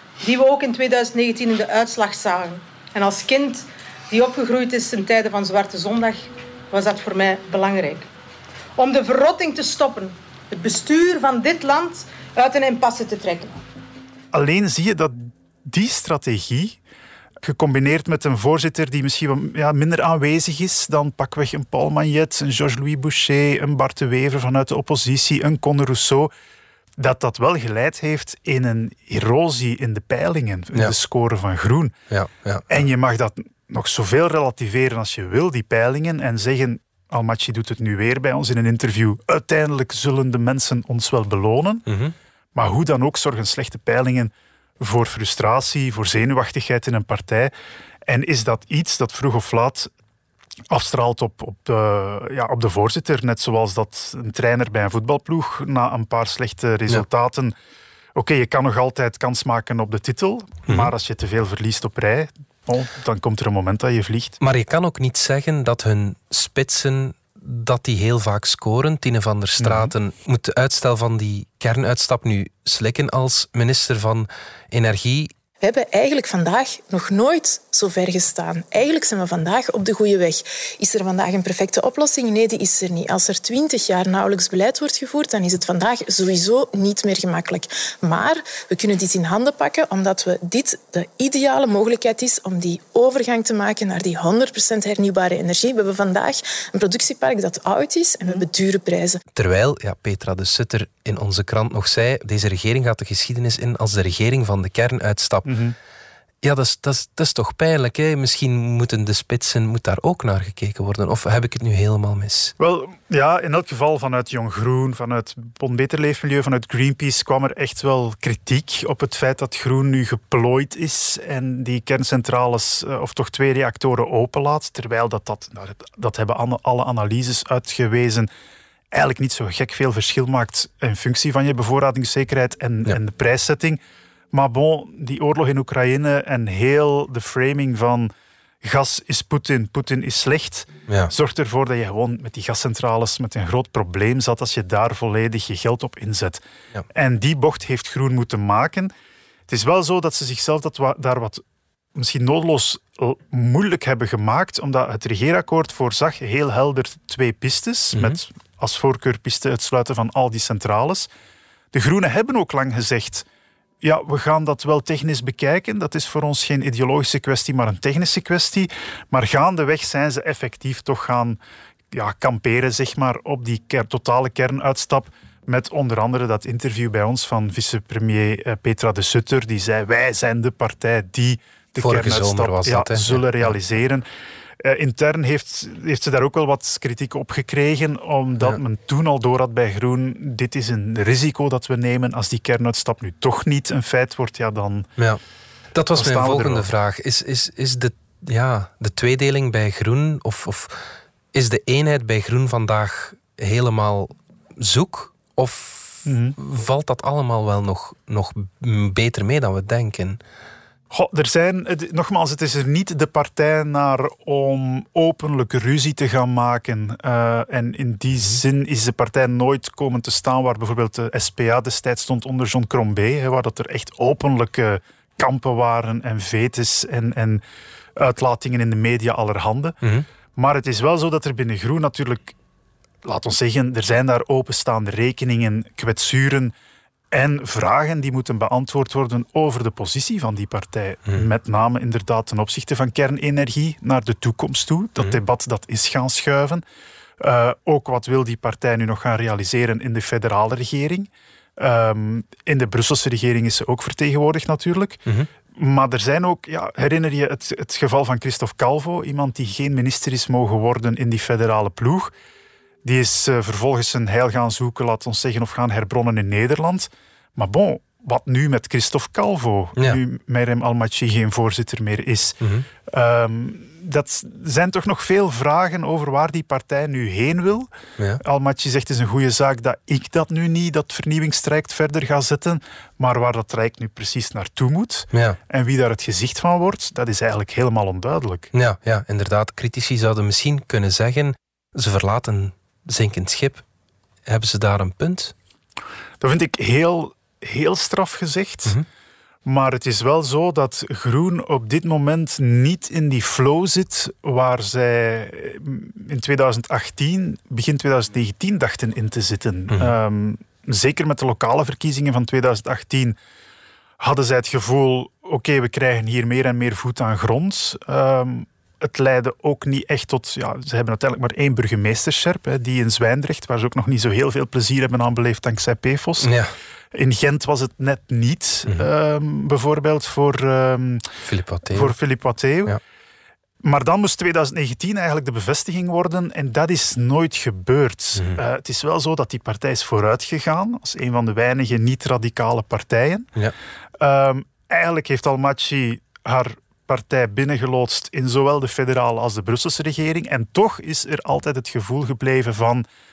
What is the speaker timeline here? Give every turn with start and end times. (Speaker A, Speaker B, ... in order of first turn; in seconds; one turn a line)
Speaker A: 0.2-8.1
Speaker A: 8.8-13.6
Speaker B: 14.3-16.8
Speaker B: 17.4-26.3
Speaker B: 27.0-31.9
Speaker C: 32.1-32.7
Speaker B: 32.7-41.9
Speaker C: 41.9-42.1
Speaker B: 42.5-47.5
Speaker B: 48.1-49.9
Speaker B: 50.7-57.5
Speaker B: 58.1-64.4
Speaker C: 60.7-60.9
Speaker C: 64.4-75.3
Speaker B: 69.6-69.9
Speaker D: 75.6-99.2
Speaker C: 99.3-105.5
Speaker B: 105.5-105.8
Speaker C: 106.4-112.5
Speaker B: 112.6-128.3
Speaker B: 128.9-133.8
Speaker B: 134.3-138.1
Speaker B: 138.6-148.9
Speaker B: 149.5-151.4
Speaker B: 151.9-161.1
Speaker C: 157.9-158.2
Speaker B: 161.7-163.2
Speaker B: 163.8-171.4
Speaker B: 171.9-184.1
Speaker C: 181.8-183.6
Speaker B: 184.6-194.9
Speaker C: 195.7-200.8
Speaker B: 195.9-196.7
Speaker C: 201.3-210.2
Speaker B: 206.1-206.3
Speaker B: 210.9-227.4
Speaker B: 228.0-229.8
Speaker B: 230.3-232.3
Speaker B: 233.0-236.5
Speaker B: 237.1-246.6
Speaker B: 247.2-255.0
Speaker B: 255.5-262.1
Speaker B: 262.8-277.7
Speaker B: 278.2-288.5
Speaker C: 285.1-285.4
Speaker C: 288.5-293.6
Speaker C: 294.2-295.3
Speaker B: 296.2-298.8
Speaker B: 299.4-313.1
Speaker C: 309.7-309.9
Speaker B: 314.0-326.3
Speaker C: 326.2-326.5
Speaker B: 326.9-331.1
Speaker C: 331.2-331.9
Speaker B: 331.7-332.8
Speaker B: 333.6-343.3
Speaker B: 344.0-352.8